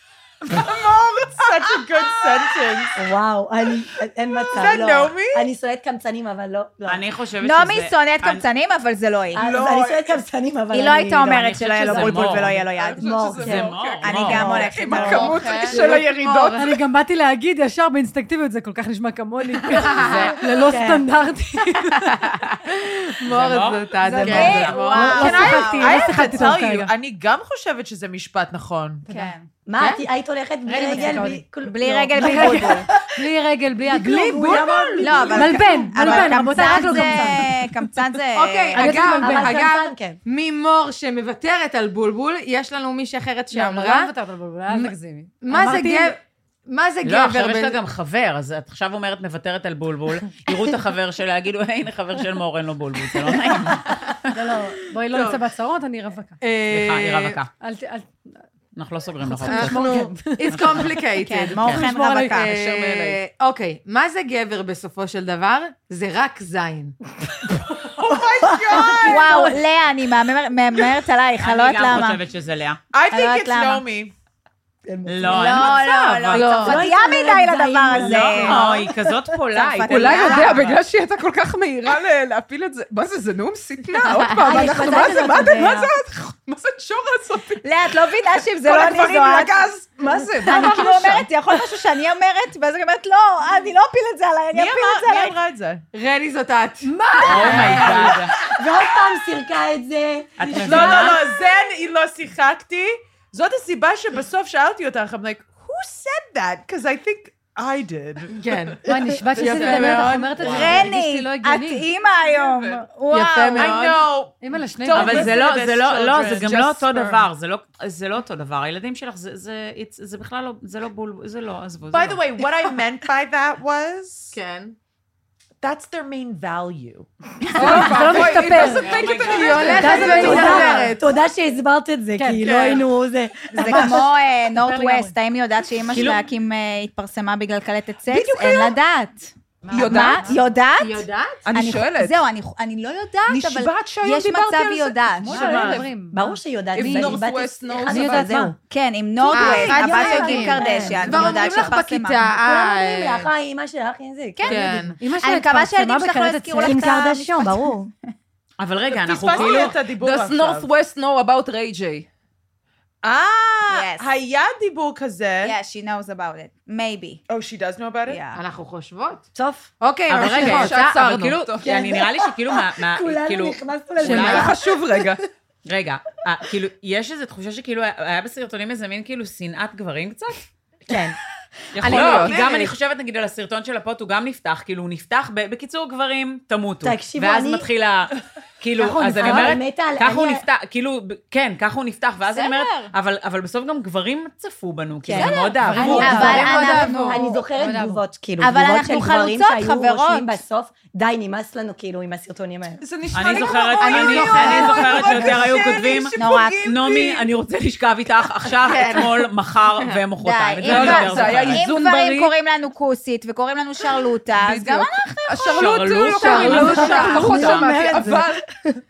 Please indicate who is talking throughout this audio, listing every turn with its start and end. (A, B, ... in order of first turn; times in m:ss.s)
0:00.4-0:02.9 A
0:03.0-0:07.0 B
0:04.6-0:05.4 A
0:06.9-0:08.4 C
0:07.4-0:09.4 D
0:09.4-0:12.2 B
0:09.5-0:10.2 A
0:10.7-0:15.4 D
0:11.4-0:12.6 C
0:11.8-0:16.8 E
0:13.0-0:13.7 B
0:13.4-0:14.6 C
0:14.3-0:15.1 B
0:15.0-0:15.8 A
0:15.7-0:16.6 F
0:16.4-0:22.2 G
0:19.7-0:20.4 F
0:20.0-0:20.3 C
0:20.6-0:21.1 B
0:22.0-0:25.2 F
0:23.2-0:24.7 C
0:24.0-0:26.9 G
0:24.2-0:26.6 D
0:25.1-0:29.1 A
0:29.0-0:29.4 G
0:29.1-0:29.4 D
0:29.6-0:33.2 B
0:29.8-0:30.0 F
0:30.7-0:31.5 G
0:30.9-0:32.9 D
0:32.1-0:37.7 G
0:33.9-0:37.1 B
0:35.0-0:39.2 D
0:38.4-0:44.1 F
0:38.8-0:39.6 G
0:39.2-0:40.2 B
0:43.5-0:46.1 G
0:44.7-0:46.2 F
0:46.7-0:47.8 F
0:47.0-0:54.0 C
0:54.3-0:56.4 G
0:55.1-0:55.4 F
0:56.4-0:57.4 F
0:56.7-0:57.5 C
0:57.6-0:58.2 G
0:58.8-0:59.9 C
0:59.2-1:00.9 G
0:59.5-1:07.0 F
1:00.5-1:00.9 C
1:01.3-1:02.5 D
1:01.6-1:02.4 G
1:01.7-1:03.2 E
1:07.9-1:09.5 A
1:08.4-1:09.6 B
1:09.0-1:12.2 D
1:11.4-1:12.8 C
1:12.9-1:14.1 A
1:13.1-1:13.8 D
1:14.9-1:15.7 B
1:15.1-1:16.6 C
1:15.2-1:18.8 D
1:16.3-1:16.8 F
1:16.6-1:19.2 B
1:17.9-1:20.8 C
1:19.5-1:20.6 D
1:19.9-1:28.1 E
1:24.0-1:24.3 F
1:24.4-1:25.9 B
1:24.5-1:25.7 D
1:27.6-1:29.7 D
1:28.6-1:31.3 E
1:30.4-1:35.4 D
1:34.5-1:35.8 A
1:35.9-1:38.0 F
1:37.0-1:41.4 B
1:37.2-1:38.3 C
1:37.3-1:37.6 G
1:40.4-1:41.2 C
1:40.6-1:48.5 A
1:48.3-1:50.4 F
1:48.9-1:51.9 G
1:49.3-1:50.9 A
1:50.4-1:53.8 D
1:52.1-1:52.8 E
1:53.1-1:54.0 F
1:53.6-1:56.6 A
1:54.4-1:55.4 G
1:54.9-2:02.2 C
1:56.3-1:57.3 E
2:01.9-2:04.4 A
2:04.3-2:04.7 F
2:05.6-2:07.1 A
2:07.5-2:11.0 G
2:07.6-2:10.8 E
2:08.8-2:10.2 C
2:09.3-2:11.1 F
2:09.8-2:14.0 B
2:12.2-2:12.6 G
2:12.4-2:12.8 D
2:13.6-2:25.6 D
2:13.6-2:15.2 G
2:15.9-2:16.2 C
2:18.1-2:18.8 E
2:19.6-2:20.4 G
2:19.7-2:20.3 E
2:20.8-2:21.4 F
2:21.4-2:22.3 E
2:23.3-2:26.0 E
2:25.3-2:27.2 G
2:26.1-2:28.6 B
2:26.8-2:28.3 E
2:27.9-2:28.6 G
2:27.9-2:32.3 D
2:29.2-2:31.7 B
2:29.3-2:33.3 F
2:32.3-2:34.9 B
2:34.4-2:37.7 D
2:34.5-2:35.0 F
2:34.6-2:37.1 G
2:36.6-2:37.9 B
2:38.6-2:39.8 C
2:38.9-2:40.7 A
2:39.5-2:42.1 E
2:43.0-2:45.6 A
2:43.7-2:44.1 D
2:45.4-2:47.2 D
2:47.3-2:48.2 A
2:48.1-2:48.4 D
2:48.3-2:49.3 F
2:49.4-2:49.7 B
2:49.8-2:51.2 F
2:50.1-2:54.5 C
2:50.2-2:51.7 E
2:51.6-2:55.2 B
2:54.0-2:55.2 E
2:55.6-3:00.4 C
3:00.9-3:01.2 B
3:01.8-3:02.4 E
3:01.8-3:16.4 C
3:01.9-3:02.7 A
3:02.2-3:02.6 F
3:06.8-3:07.7 B
3:08.8-3:09.6 G
3:09.2-3:10.4 B
3:12.3-3:12.9 D
3:15.1-3:22.8 B
3:15.2-3:18.0 G
3:15.7-3:17.3 F
3:16.0-3:17.2 D
3:18.4-3:20.4 D
3:22.8-3:27.2 E
3:23.1-3:31.6 C
3:23.8-3:25.5 F
3:26.2-3:26.8 D
3:28.6-3:29.2 F
3:30.2-3:38.0 D
3:30.6-3:32.3 E
3:34.3-3:38.4 E
3:35.5-3:37.7 C
3:36.3-3:36.9 F
3:36.4-3:38.8 B